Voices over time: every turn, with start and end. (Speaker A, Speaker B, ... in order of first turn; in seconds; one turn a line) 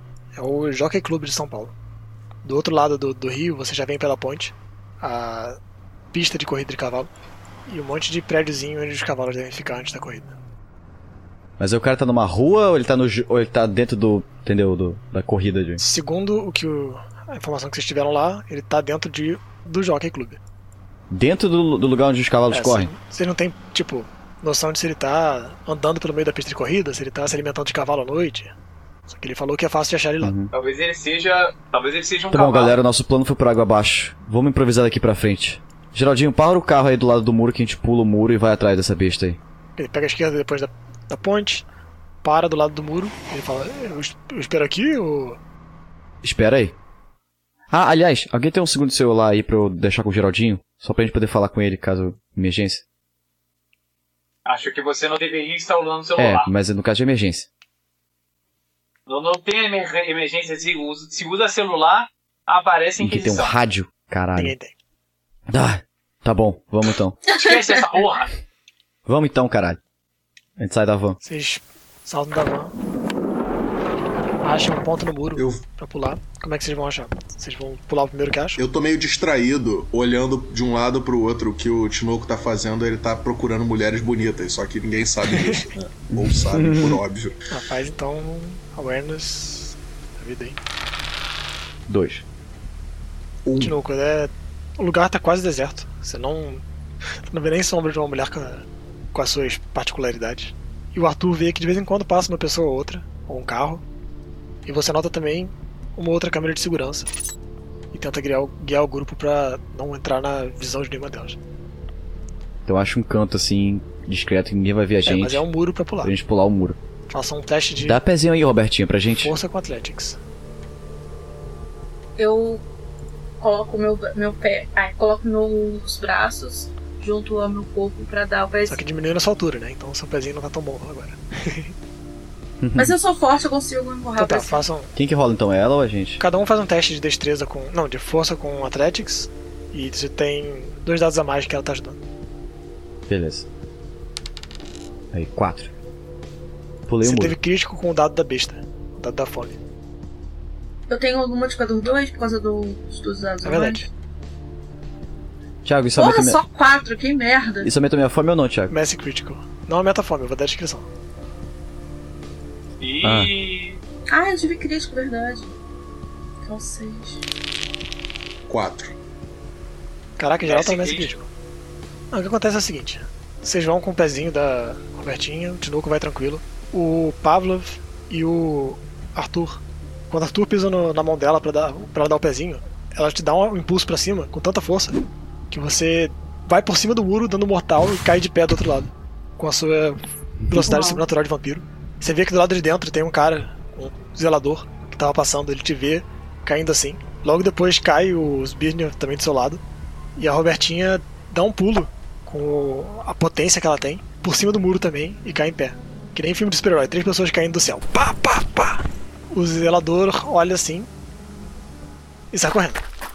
Speaker A: 0.4-1.7
Speaker A: 2.4-5.6
Speaker A: 6.1-7.1
Speaker A: 7.7-10.3
Speaker B: 11.6-15.8
Speaker A: 15.8-20.4
Speaker B: 21.1-22.9
Speaker A: 22.5-28.5
Speaker A: 29.1-30.3
Speaker B: 30.2-30.5
Speaker C: 30.5-32.8
Speaker B: 32.3-39.4
Speaker A: 39.8-41.6
Speaker A: 42.2-45.4
Speaker B: 46.2-46.8
Speaker B: 47.7-52.8
Speaker C: 54.5-56.5
Speaker B: 56.2-57.5
Speaker C: 59.1-63.6
Speaker B: 63.0-64.5
Speaker A: 64.4-64.8
Speaker B: 65.5-67.2
Speaker C: 67.3-68.3
Speaker B: 69.1-69.8
Speaker B: 70.6-71.2
Speaker A: 71.2-72.7
Speaker A: 74.4-78.6
Speaker D: 75.4-75.6
Speaker D: 78.6-87.4
Speaker A: 85.3-85.7
Speaker B: 86.1-87.0
Speaker A: 87.5-90.6
Speaker B: 91.9-92.2
Speaker D: 93.5-93.8
Speaker A: 93.6-96.6
Speaker A: 97.3-103.8
Speaker A: 104.7-107.1
Speaker A: 107.9-111.4
Speaker B: 112.7-115.5
Speaker A: 115.0-116.1
Speaker B: 116.0-116.8
Speaker A: 117.1-118.0
Speaker B: 117.8-119.4
Speaker A: 119.2-120.2
Speaker E: 122.2-122.7
Speaker E: 123.4-128.8
Speaker A: 128.7-131.7
Speaker B: 132.6-133.0
Speaker E: 132.8-134.7
Speaker A: 134.2-134.9
Speaker B: 134.9-136.2
Speaker A: 136.2-142.0
Speaker B: 143.1-143.5
Speaker B: 145.1-145.7
Speaker B: 146.9-147.4
Speaker A: 147.0-149.6
Speaker E: 150.9-153.9
Speaker A: 153.4-153.9
Speaker B: 155.6-156.4
Speaker E: 156.0-157.7
Speaker B: 157.6-158.7
Speaker A: 158.7-160.9
Speaker C: 162.8-163.8
Speaker B: 163.0-163.3
Speaker E: 164.1-165.6
Speaker E: 166.4-167.2
Speaker D: 168.5-168.9
Speaker A: 170.2-171.3
Speaker C: 170.4-171.1
Speaker A: 172.1-185.0
Speaker A: 185.5-199.6
Speaker E: 190.6-191.0
Speaker A: 200.2-210.9
Speaker A: 212.3-212.8